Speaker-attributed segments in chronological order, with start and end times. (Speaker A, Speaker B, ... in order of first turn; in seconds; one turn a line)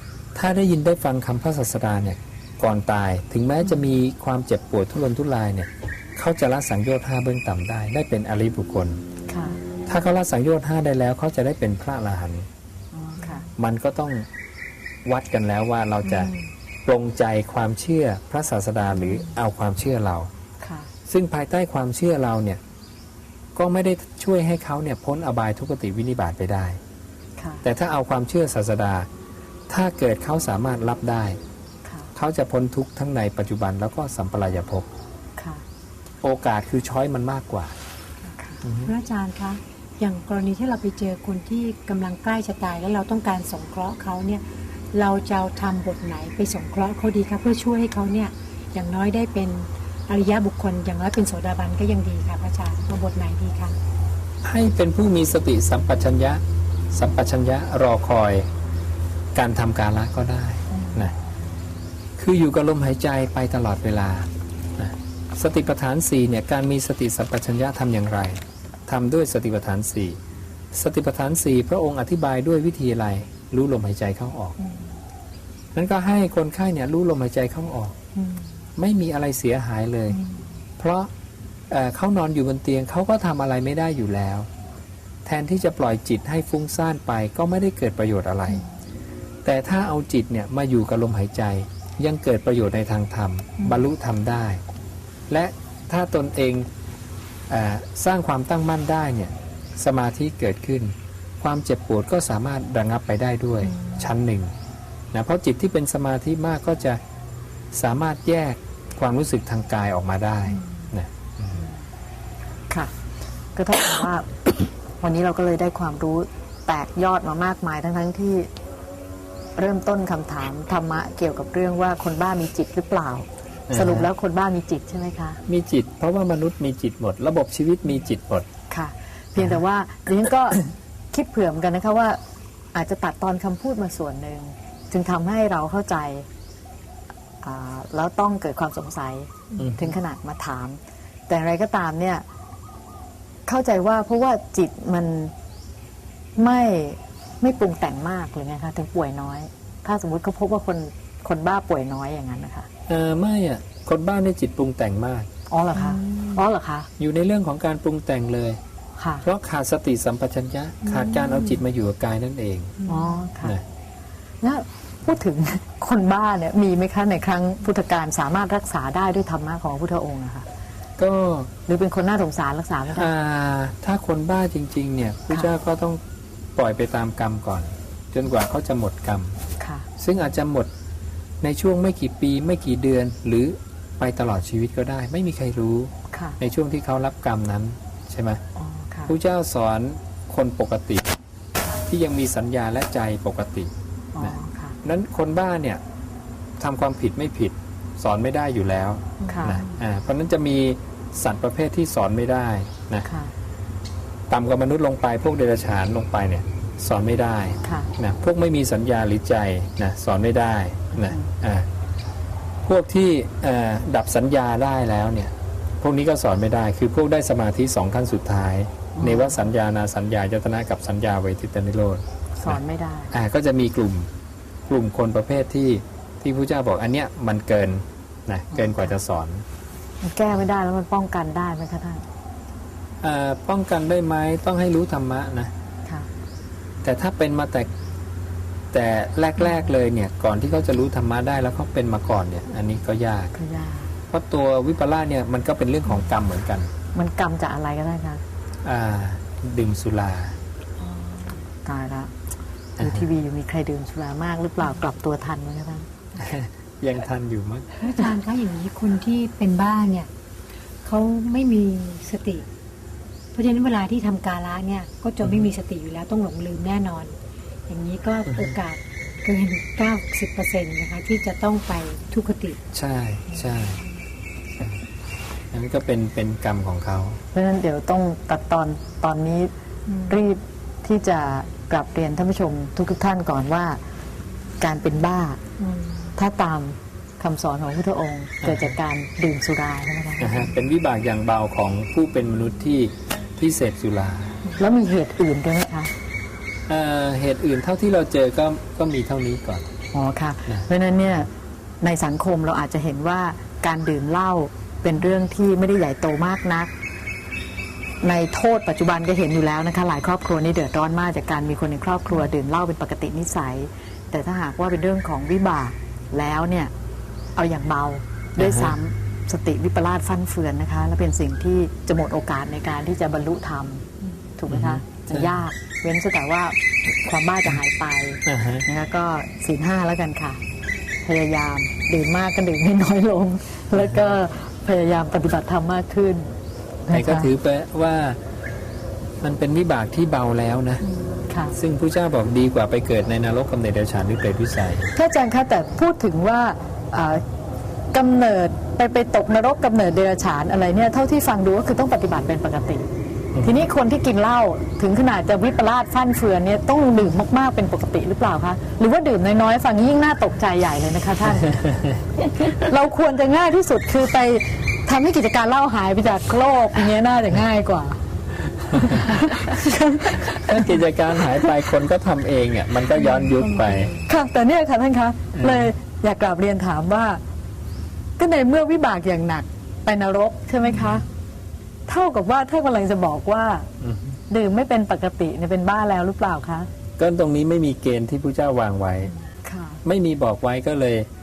Speaker A: 0.3-9.0
Speaker B: 9.3-9.6
Speaker A: 9.9-12.5
Speaker B: 12.9-13.5
Speaker A: 13.6-14.3
Speaker A: 15.0-16.3
Speaker A: 16.8-20.3
Speaker B: 20.6-20.9
Speaker A: 21.1-22.6
Speaker A: 23.5-26.8
Speaker B: 27.4-27.6
Speaker A: 27.6-29.1
Speaker A: 29.7-31.4
Speaker A: 32.1-34.9
Speaker B: 35.4-35.6
Speaker A: 36.2-37.7
Speaker A: 38.6-38.9
Speaker C: 38.8-53.8
Speaker A: 54.4-56.4
Speaker A: 56.9-58.5
Speaker A: 59.3-61.1
Speaker A: 62.2-70.2
Speaker A: 70.7-74.6
Speaker A: 75.7-77.9
Speaker A: 78.8-80.2
Speaker A: 80.8-81.1
Speaker A: 81.7-84.5
Speaker A: 85.2-88.6
Speaker A: 89.4-94.6
Speaker A: 95.3-96.7
Speaker A: 97.5-104.5
Speaker B: 103.8-104.1
Speaker A: 105.1-107.0
Speaker A: 107.7-111.7
Speaker B: 113.5-114.3
Speaker B: 115.0-118.5
Speaker B: 119.5-125.4
Speaker A: 123.7-124.1
Speaker A: 125.5-128.5
Speaker B: 128.7-132.2
Speaker B: 132.7-136.3
Speaker B: 137.4-142.2
Speaker A: 139.6-139.9
Speaker B: 143.4-145.3
Speaker B: 146.4-152.7
Speaker A: 152.9-155.3
Speaker B: 155.5-156.9
Speaker C: 155.7-156.4
Speaker A: 157.0-158.6
Speaker B: 159.0-159.2
Speaker A: 159.2-162.8
Speaker C: 160.8-161.6
Speaker C: 162.8-163.2
Speaker B: 162.9-163.6
Speaker B: 164.4-170.4
Speaker A: 171.0-171.5
Speaker B: 171.7-173.1
Speaker A: 172.9-176.0
Speaker A: 176.6-179.4
Speaker B: 179.6-179.9
Speaker A: 180.0-180.7
Speaker A: 181.4-188.4
Speaker B: 186.1-186.4
Speaker B: 188.6-189.1
Speaker A: 189.1-191.1
Speaker A: 191.8-195.8
Speaker B: 194.1-194.8
Speaker A: 196.6-203.1
Speaker C: 199.2-199.6
Speaker B: 199.2-199.6
Speaker B: 203.0-203.3
Speaker A: 204.3-211.7
Speaker B: 207.6-207.9
Speaker B: 210.9-211.3
Speaker A: 212.6-222.6
Speaker B: 218.9-219.4
Speaker B: 222.4-223.1
Speaker A: 223.1-224.1
Speaker A: 224.7-229.4
Speaker B: 228.5-228.9
Speaker B: 230.0-232.0
Speaker A: 233.0-235.5
Speaker A: 236.8-237.7
Speaker A: 238.7-243.3
Speaker B: 243.4-243.9
Speaker A: 244.1-246.7
Speaker B: 246.9-248.2
Speaker A: 248.6-250.4
Speaker B: 251.6-252.1
Speaker B: 252.8-255.9
Speaker A: 252.8-253.1
Speaker A: 256.1-257.7
Speaker C: 257.8-260.1
Speaker C: 260.8-262.4
Speaker C: 263.3-267.1
Speaker A: 265.2-265.5
Speaker C: 267.7-272.6
Speaker A: 268.3-268.5
Speaker A: 272.7-273.8
Speaker A: 275.5-277.2
Speaker B: 277.3-279.5
Speaker C: 279.9-280.2
Speaker B: 280.1-283.8
Speaker B: 284.6-285.4
Speaker C: 285.6-286.1
Speaker B: 286.1-290.5
Speaker A: 288.4-288.8
Speaker A: 290.2-294.4
Speaker B: 294.6-295.9
Speaker A: 296.7-299.7
Speaker B: 299.9-301.3
Speaker B: 301.8-306.7
Speaker B: 308.0-316.7
Speaker B: 317.4-330.4
Speaker A: 318.4-318.8
Speaker A: 324.5-325.4
Speaker A: 328.2-328.6
Speaker B: 331.0-336.3
Speaker A: 333.8-334.1
Speaker B: 336.9-337.3
Speaker A: 336.9-338.2
Speaker A: 339.2-340.8
Speaker B: 341.2-341.5
Speaker A: 341.5-344.9
Speaker B: 344.9-347.2
Speaker B: 347.9-352.9
Speaker A: 353.3-353.6
Speaker B: 353.4-361.5
Speaker B: 362.3-368.0
Speaker B: 368.7-370.8
Speaker A: 368.8-369.0
Speaker A: 370.3-373.9
Speaker C: 373.0-374.0
Speaker B: 374.0-377.2
Speaker A: 375.3-375.7
Speaker B: 378.2-381.1
Speaker B: 381.9-383.7
Speaker A: 383.8-384.2
Speaker B: 384.3-386.7
Speaker A: 387.0-389.1
Speaker B: 389.4-389.8
Speaker A: 389.8-391.1